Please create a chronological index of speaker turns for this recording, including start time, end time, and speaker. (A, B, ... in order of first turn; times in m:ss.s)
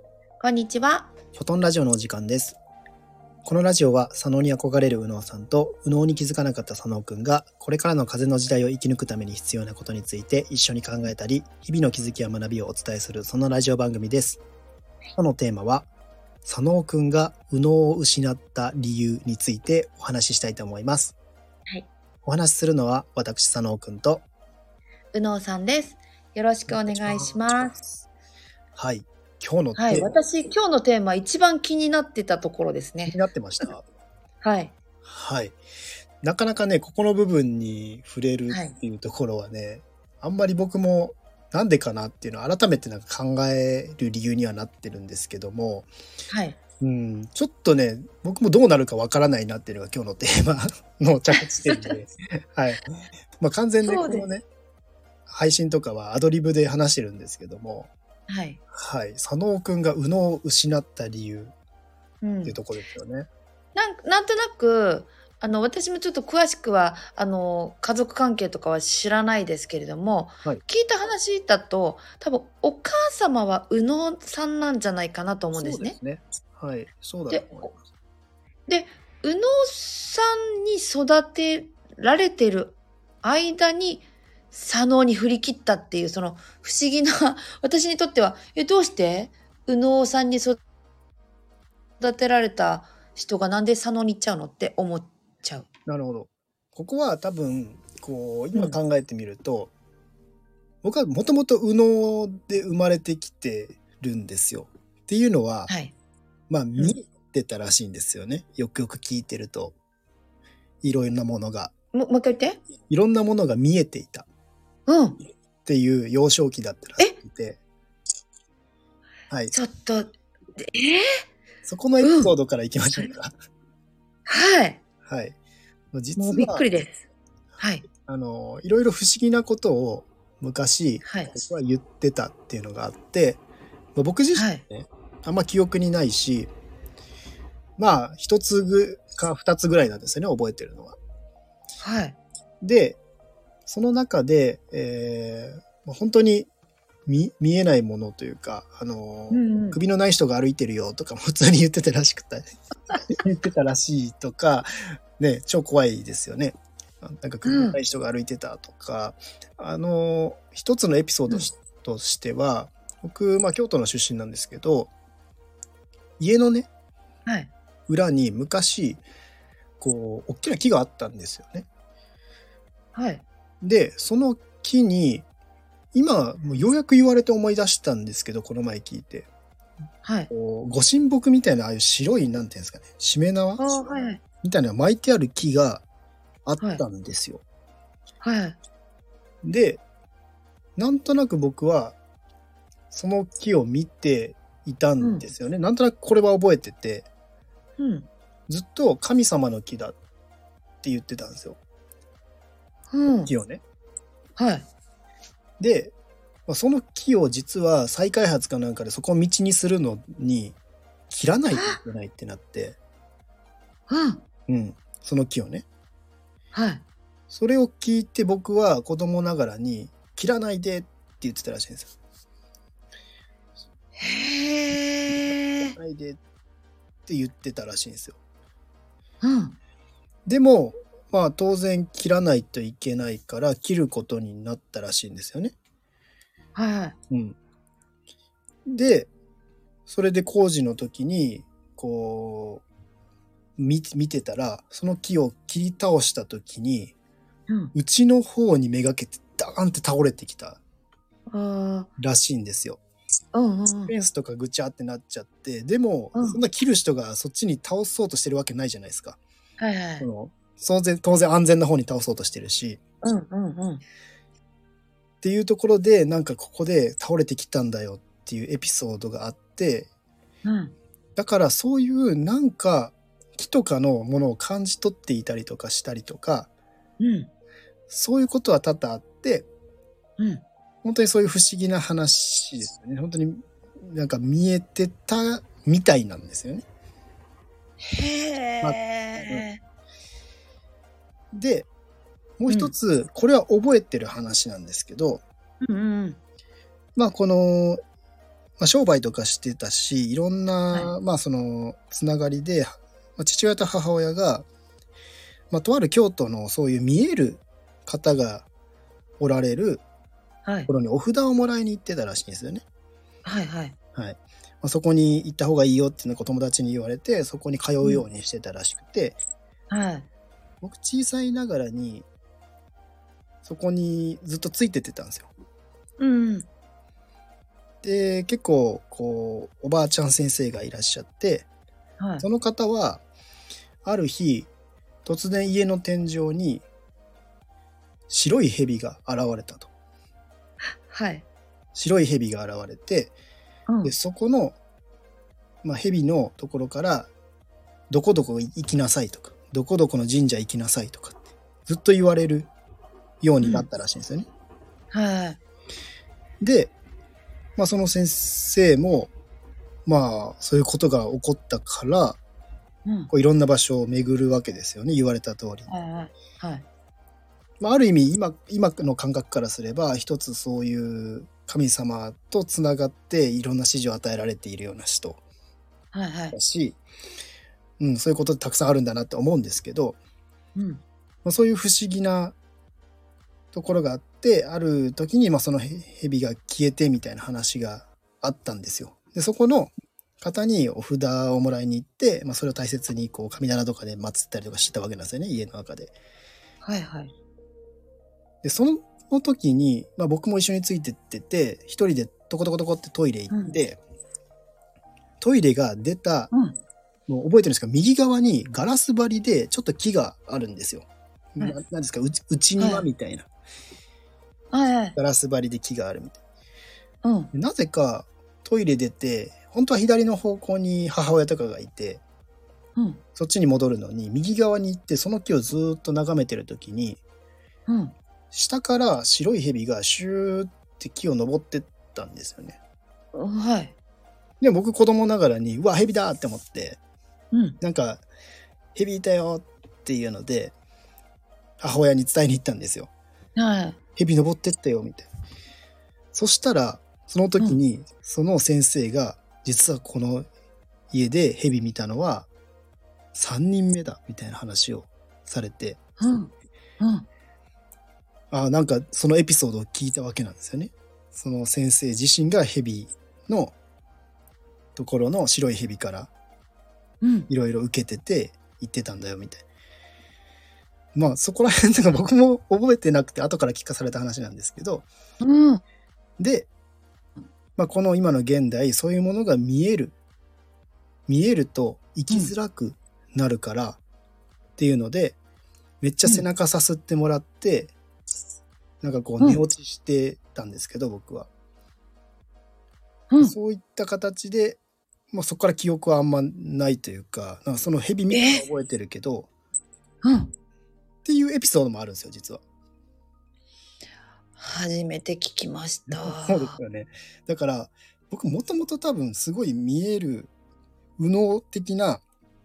0:00.4-0:01.1 A
0:01.3-0:02.6 B
0:03.4-0:14.4 B
0:15.2-0:15.9 B
0:16.4-0:21.2 B
0:22.2-0:24.2 B
0:25.1-0:27.8 A
0:26.7-0:28.0 B
0:28.8-0:30.2 B
0:29.8-0:33.2 A
0:33.1-0:33.8 B
0:34.4-0:34.7 A
0:35.0-0:35.6 B
0:36.2-0:45.9 B
0:38.5-0:38.7 A
0:46.3-0:46.6 A
0:46.8-0:54.4 B
0:51.7-0:51.9 A
0:53.8-0:54.2 A
0:55.3-0:57.9 B
0:58.3-0:58.6 A
0:58.7-1:01.5 B
1:02.2-1:02.6 A
1:02.4-1:03.3 B
1:03.7-1:16.0 A
1:15.5-1:17.8 B
1:17.3-1:17.6 A
1:18.7-1:30.6 A
1:32.0-1:35.6 A
1:35.9-1:39.7 B
1:40.8-1:45.7 B
1:45.7-1:45.9 A
1:46.5-1:49.7 B
1:50.8-1:51.7 B
1:51.9-1:52.6 A
1:52.9-1:54.3 B
1:54.9-1:55.2 A
1:55.6-1:57.6 B
1:59.3-1:59.5 B
1:59.5-2:01.1 A
2:01.6-2:03.3 B
2:02.0-2:02.3 A
2:04.3-2:04.8 A
2:05.0-2:05.4 B
2:05.9-2:06.7 B
2:06.2-2:07.0 A
2:07.6-2:07.9 A
2:08.0-2:13.4 B
2:11.0-2:11.3 A
2:14.0-2:16.5 B
2:14.3-2:14.6 A
2:17.8-2:21.0 B
2:21.8-2:22.2 A
2:22.6-2:23.0 B
2:23.6-2:26.5 B
2:27.0-2:44.9 B
2:29.3-2:29.8 A
2:37.4-2:37.8 A
2:46.2-2:46.7 B
2:47.2-2:47.5 A
2:47.9-2:49.0 B
2:49.8-2:51.7 B
2:52.9-2:53.2 A
2:53.6-2:55.2 B
2:55.9-2:59.3 B
3:00.0-3:00.3 A
3:00.3-3:03.6 B
3:03.6-3:04.2 A
3:04.4-3:05.8 B
3:06.4-3:07.4 B
3:06.6-3:06.8 A
3:08.2-3:08.6 A
3:09.4-3:09.8 B
3:10.8-3:12.0 B
3:12.9-3:17.1 B
3:17.8-3:18.1 A
3:18.5-3:20.0 B
3:20.8-3:21.6 B
3:22.9-3:23.3 A
3:23.3-3:23.6 B
3:24.4-3:24.7 A
3:25.6-3:25.9 B
3:26.5-3:30.6 B
3:31.1-3:32.8 B
3:31.5-3:31.8 A
3:33.9-3:34.2 A
3:34.5-3:35.6 B
3:36.5-3:36.8 A
3:37.3-3:41.9 B
3:44.0-3:45.7 A
3:45.6-3:46.2 B
3:47.0-3:48.2 B
3:49.2-3:49.6 A
3:50.2-3:55.5 B
3:56.5-3:57.0 A
3:57.1-3:57.4 B
3:58.7-3:59.1 B
3:59.8-4:02.6 B
4:03.6-4:06.9 B
4:07.7-4:10.6 B
4:11.3-4:11.9 A
4:12.0-4:12.8 B
4:13.3-4:13.9 A
4:13.9-4:19.2 B
4:19.6-4:20.1 A
4:20.0-4:22.8 B
4:23.0-4:23.8 A
4:25.2-4:29.9 B
4:30.4-4:30.7 A
4:31.2-4:36.5 B
4:37.0-4:37.3 A
4:37.9-4:39.5 B
4:40.8-4:46.6 B
4:47.8-4:49.6 A
4:48.6-4:49.5 B
4:51.3-4:51.7 B
4:52.4-4:55.2 B
4:52.5-4:52.7 A
4:55.6-4:56.2 A
4:57.0-4:57.8 B
4:58.6-5:04.4 B
5:05.5-5:08.4 B
5:09.2-5:09.8 B
5:10.4-5:10.7 A
5:10.7-5:12.6 B
5:13.2-5:13.7 A
5:13.9-5:19.2 B
5:19.7-5:20.1 A
5:20.6-5:22.0 B
5:23.4-5:25.3 B
5:26.0-5:26.5 A
5:27.8-5:31.5 B
5:32.0-5:32.2 A
5:32.2-5:33.0 B
5:33.8-5:34.5 B
5:35.0-5:36.6 B
5:38.1-5:39.7 B
5:40.7-5:41.2 A
5:41.7-5:43.1 B
5:43.7-5:43.9 A
5:43.8-5:44.6 B
5:45.6-5:47.1 B
5:47.9-5:52.5 B
5:53.2-5:54.3 B
5:54.9-5:55.4 A
5:56.4-5:56.7 B
5:57.6-5:59.1 B
5:59.8-6:02.2 B
6:03.1-6:05.7 B
6:05.7-6:06.6 A
6:07.6-6:15.2 B
6:15.9-6:16.4 A
6:16.3-6:16.8 B
6:17.8-6:20.0 B
6:20.6-6:20.8 A
6:21.2-6:22.4 B
6:23.5-6:35.9 B
6:36.6-6:37.1 A
6:38.4-6:43.8 B
6:45.2-6:46.3 B
6:47.1-6:53.3 B
6:52.6-6:52.8 A
6:54.5-6:54.9 A
6:55.0-6:56.2 B
6:57.0-6:57.3 A
6:57.3-7:02.0 B
7:02.8-7:03.0 A
7:03.2-7:07.0 B
7:07.7-7:07.9 A
7:08.3-7:12.6 B
7:13.1-7:13.7 A
7:14.4-7:16.8 B
7:17.3-7:17.6 A
7:17.6-7:18.0 B
7:18.7-7:20.5 B
7:21.6-7:22.9 B
7:23.4-7:23.8 A
7:24.0-7:25.1 B
7:26.1-7:30.3 B
7:30.9-7:32.3 B
7:33.1-7:35.8 B
7:36.0-7:37.0 A
7:38.3-7:43.5 B
7:44.8-7:46.1 B
7:47.0-7:47.3 A
7:47.3-7:49.4 B
7:50.9-7:54.9 B
7:55.2-7:55.6 A
7:56.2-7:56.5 B
7:57.6-8:00.0 B
8:01.1-8:03.8 B
8:04.6-8:05.2 B
8:05.8-8:07.7 B
8:08.8-8:11.3 B
8:13.2-8:14.6 B
8:15.1-8:19.3 B
8:18.1-8:18.4 A
8:20.0-8:20.3 A
8:21.0-8:22.4 B
8:24.4-8:26.6 A
8:25.9-8:30.3 B
8:31.0-8:32.0 B